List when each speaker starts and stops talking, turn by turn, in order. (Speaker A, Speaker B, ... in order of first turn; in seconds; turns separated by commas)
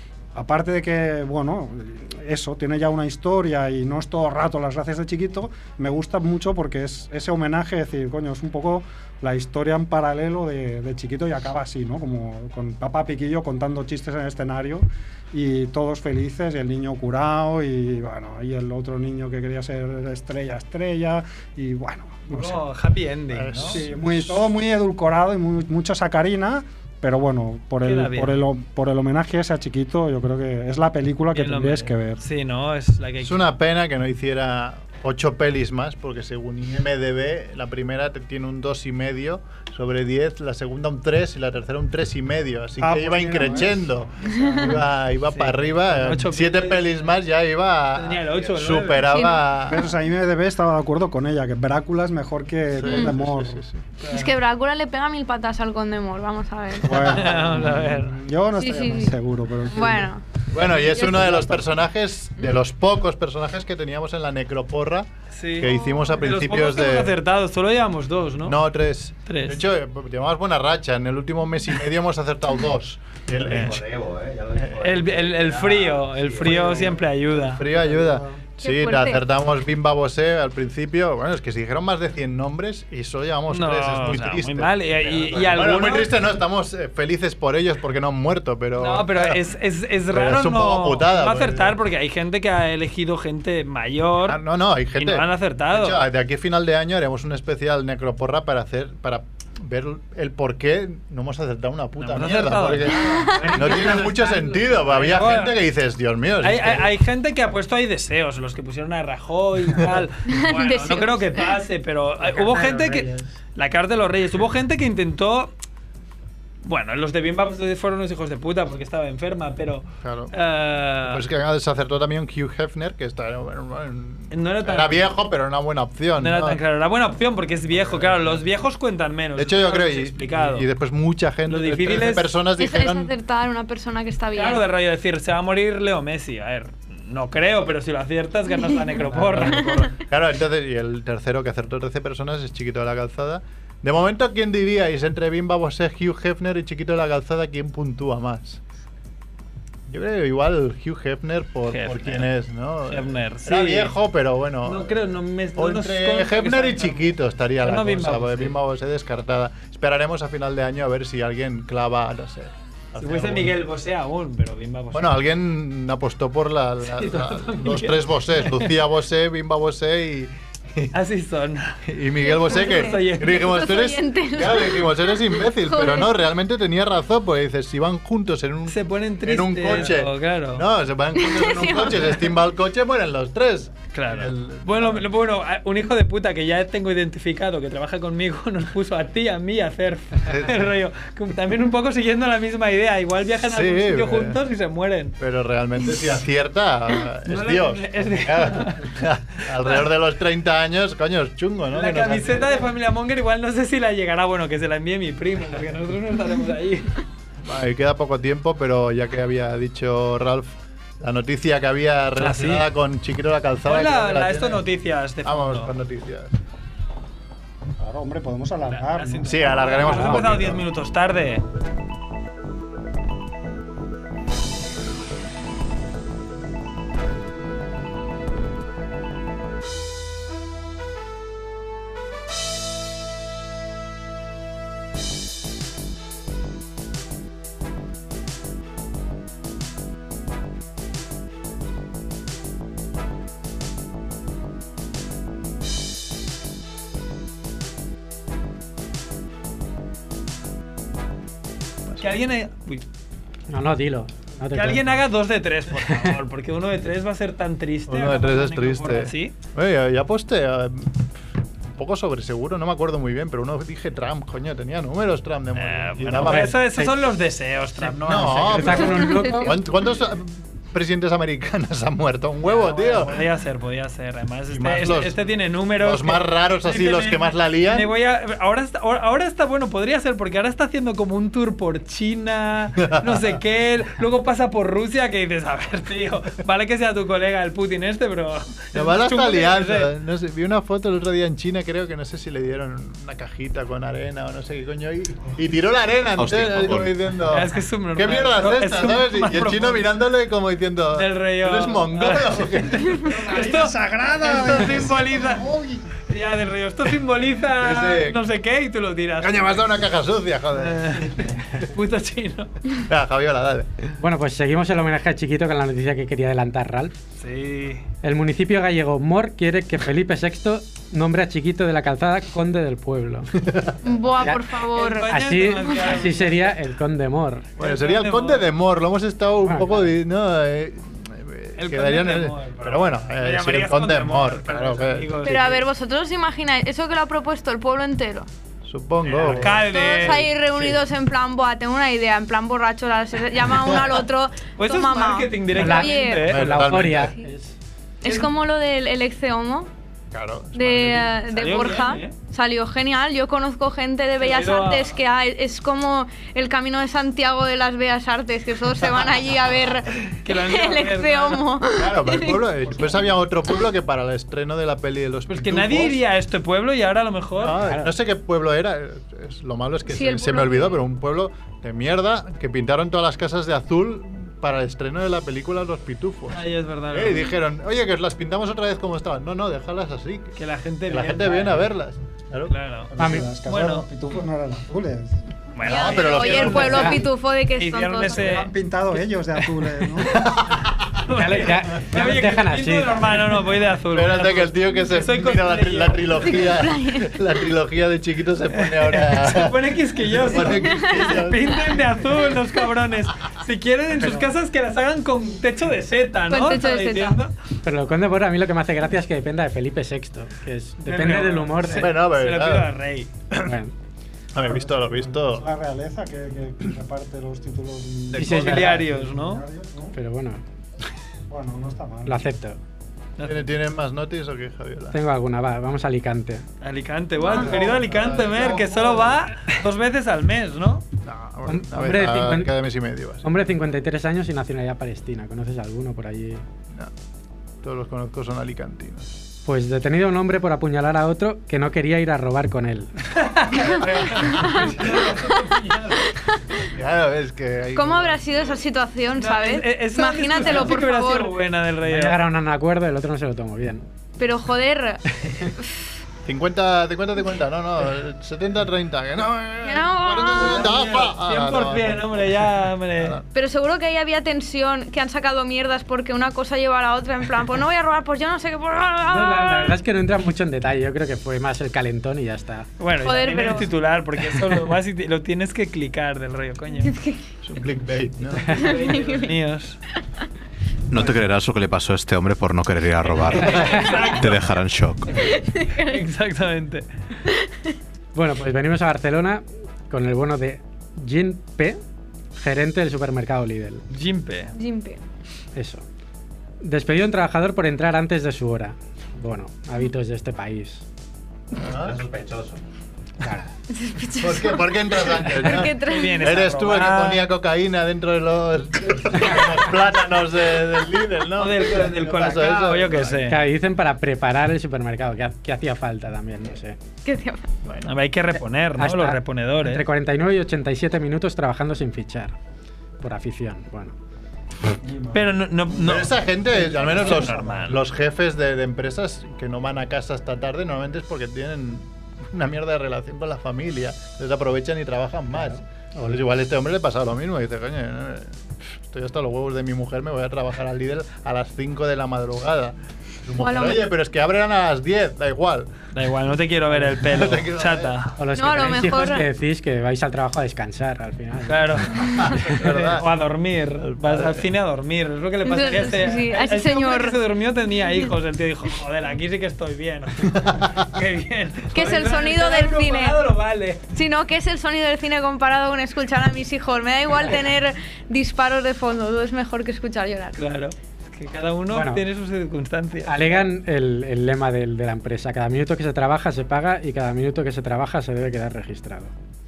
Speaker A: 0.3-22.6, Speaker B: 22.3-23.8, Speaker C: 23.3-24.4, Speaker A: 23.6-32.2, Speaker B: 27.8-28.4, Speaker B: 31.3-33.5, Speaker C: 33.2-49.9, Speaker A: 42.8-44.8, Speaker B: 45.3-46.8, Speaker B: 47.9-49.1, Speaker D: 49.1-49.4, Speaker A: 49.7-53.6, Speaker C: 52.8-53.9, Speaker B: 54.0-54.3, Speaker D: 54.1-57.1, Speaker A: 56.8-60.1, Speaker C: 57.0-57.7, Speaker B: 57.0-58.2, Speaker D: 58.5-59.1, Speaker D: 59.7-60.2, Speaker C: 60.5-65.1, Speaker D: 60.9-61.5, Speaker A: 61.0-61.5, Speaker B: 65.3-68.6, Speaker C: 65.6-67.2, Speaker D: 65.7-66.1, Speaker C: 68.4-74.0, Speaker B: 69.2-69.6, Speaker B: 73.4-73.8, Speaker C: 74.5-75.0, Speaker B: 74.8-77.6, Speaker C: 76.3-89.4, Speaker A: 77.8-78.2, Speaker D: 78.6-79.2, Speaker B: 83.5-86.1, Speaker B: 88.8-94.4, Speaker C: 90.1-91.8, Speaker C: 94.2-106.9, Speaker B: 95.0-96.0, Speaker B: 102.0-104.1, Speaker D: 102.9-103.7, Speaker E: 103.8-104.5, Speaker B: 104.8-105.5, Speaker B: 106.4-115.5, Speaker C: 109.8-110.0, Speaker D: 110.2-111.6, Speaker E: 112.5-113.0, Speaker B: 116.6-121.2, Speaker C: 120.0-120.3, Speaker C: 121.0-126.6, Speaker B: 124.3-125.1, Speaker B: 126.2-130.6, Speaker C: 127.7-128.4, Speaker C: 129.3-133.1, Speaker B: 131.5-132.2, Speaker D: 132.6-134.6, Speaker B: 134.3-139.8, Speaker C: 139.1-148.6, Speaker C: 149.9-155.0, Speaker B: 151.7-152.3, Speaker B: 152.9-153.9, Speaker B: 154.6-158.5, Speaker C: 155.6-163.6, Speaker B: 163.0-165.1, Speaker C: 164.9-170.9, Speaker B: 167.0-168.7, Speaker B: 170.9-171.8, Speaker C: 171.8-185.0, Speaker D: 172.2-176.1, Speaker B: 172.5-173.5, Speaker B: 178.7-180.6, Speaker D: 181.2-182.3, Speaker B: 183.9-195.2, Speaker C: 190.2-190.6, Speaker C: 193.4-194.4, Speaker C: 195.2-202.7, Speaker B: 197.2-198.9, Speaker B: 201.7-207.0, Speaker C: 207.4-214.6, Speaker B: 212.2-212.7, Speaker B: 213.6-215.7, Speaker C: 215.2-216.3, Speaker A: 217.8-219.9, Speaker B: 218.7-221.4, Speaker C: 219.2-220.6, Speaker E: 219.8-220.2, Speaker B: 252.0-252.8, Speaker E: 253.5-255.0, Speaker B: 254.5-259.4, Speaker C: 257.9-261.1, Speaker C: 261.7-266.7, Speaker B: 265.5-268.9, Speaker E: 266.3-267.1, Speaker C: 267.8-273.2, Speaker E: 268.1-269.6, Speaker D: 268.8-269.5, Speaker B: 272.4-289.9, Speaker C: 274.5-275.2, Speaker C: 275.7-277.9, Speaker C: 282.9-283.3, Speaker C: 288.7-303.1, Speaker F: 296.2-296.9, Speaker B: 297.3-299.8, Speaker B: 300.9-305.4, Speaker A: 303.0-305.9, Speaker B: 306.1-309.6, Speaker C: 307.5-308.2, Speaker C: 309.2-311.5, Speaker B: 310.6-312.5, Speaker C: 312.9-313.9, Speaker E: 314.0-316.9, Speaker B: 317.2-317.9, Speaker E: 318.0-323.3, Speaker C: 323.4-323.7, Speaker D: 323.8-325.2, Speaker B: 324.7-326.5, Speaker E: 325.1-327.5, Speaker D: 325.7-326.0, Speaker C: 327.6-335.2, Speaker B: 327.6-328.5, Speaker E: 329.4-329.9, Speaker B: 331.6-335.6, Speaker D: 335.2-338.3, Speaker C: 338.6-340.3, Speaker B: 339.0-340.3, Speaker D: 339.5-346.3, Speaker B: 344.5-347.0, Speaker E: 345.5-347.6, Speaker C: 346.2-347.1, Speaker D: 347.0-347.2, Speaker D: 348.0-349.7, Speaker C: 350.1-351.2, Speaker D: 350.5-362.6, Speaker B: 351.3-352.1, Speaker B: 354.2-355.0, Speaker B: 360.2-361.4, Speaker C: 361.7-366.0, Speaker A: 362.7-363.1, Speaker B: 365.3-367.6, Speaker C: 367.4-380.3, Speaker E: 367.5-367.9, Speaker D: 369.9-370.8, Speaker B: 376.3-377.2, Speaker B: 380.4-381.6, Speaker C: 380.9-382.5, Speaker B: 382.5-383.9, Speaker A: 382.9-385.2, Speaker E: 383.0-383.3, Speaker B: 385.5-388.5, Speaker C: 385.6-387.0, Speaker D: 385.6-388.4, Speaker A: 388.1-390.2, Speaker B: 389.3-390.0, Speaker C: 390.1-391.0, Speaker B: 391.0-396.5, Speaker E: 391.1-393.3, Speaker C: 393.9-401.8, Speaker D: 396.2-397.1, Speaker B: 398.5-407.3, Speaker D: 400.6-401.2, Speaker D: 406.3-407.2, Speaker E: 407.6-411.9, Speaker B: 410.8-413.1, Speaker C: 411.7-412.7, Speaker E: 413.4-413.7, Speaker C: 414.3-415.5, Speaker A: 414.4-420.0, Speaker B: 418.1-419.4, Speaker E: 418.2-418.9, Speaker E: 419.9-420.4, Speaker A: 421.3-422.3, Speaker E: 422.1-422.6, Speaker B: 423.2-423.4, Speaker C: 423.2-425.0, Speaker E: 424.9-426.4, Speaker B: 426.6-430.8, Speaker D: 427.2-427.5, Speaker C: 427.3-429.2, Speaker C: 431.0-433.3, Speaker E: 431.4-432.5, Speaker E: 433.2-436.4, Speaker C: 437.6-439.2, Speaker E: 439.4-442.9, Speaker B: 443.1-446.1, Speaker C: 443.8-445.0, Speaker D: 444.2-444.7, Speaker D: 446.1-446.6, Speaker C: 446.7-448.5, Speaker D: 447.7-451.4, Speaker B: 449.2-452.2, Speaker E: 451.8-453.9, Speaker D: 454.2-455.0, Speaker C: 456.2-463.2, Speaker D: 459.6-460.8, Speaker B: 460.4-463.2, Speaker D: 463.3-469.8, Speaker E: 469.1-472.7, Speaker B: 472.8-476.9, Speaker D: 473.0-473.7, Speaker E: 474.3-474.7, Speaker D: 476.8-477.2, Speaker C: 477.4-478.7, Speaker B: 478.4-479.8, Speaker D: 478.6-479.3, Speaker F: 480.9-485.1, Speaker B: 483.0-484.4, Speaker D: 485.1-486.0, Speaker B: 485.7-486.9, Speaker D: 487.3-487.7, Speaker E: 488.1-491.8, Speaker E: 492.4-493.8, Speaker B: 493.9-494.5, Speaker D: 494.5-495.0, Speaker E: 495.5-495.8, Speaker E: 496.6-500.8, Speaker C: 501.6-502.0, Speaker F: 501.8-502.1, Speaker D: 503.7-506.4, Speaker C: 504.2-513.3, Speaker B: 505.4-507.3, Speaker B: 511.4-513.4, Speaker E: 513.3-516.8, Speaker D: 517.0-517.5, Speaker C: 517.6-517.9, Speaker B: 517.8-519.8, Speaker E: 518.8-522.3, Speaker E: 523.0-523.9, Speaker A: 524.8-525.3, Speaker B: 525.1-527.8, Speaker C: 525.7-545.7, Speaker D: 543.4-543.9, Speaker B: 545.9-548.2, Speaker C: 546.8-548.0, Speaker E: 548.2-552.0, Speaker D: 548.3-549.3, Speaker B: 551.4-563.8, Speaker C: 551.9-553.1, Speaker C: 553.8-554.5, Speaker D: 555.4-557.2, Speaker C: 560.3-560.7, Speaker D: 561.7-563.2, Speaker D: 563.9-570.4, Speaker B: 570.4-573.4, Speaker E: 571.7-572.0, Speaker E: 573.0-579.1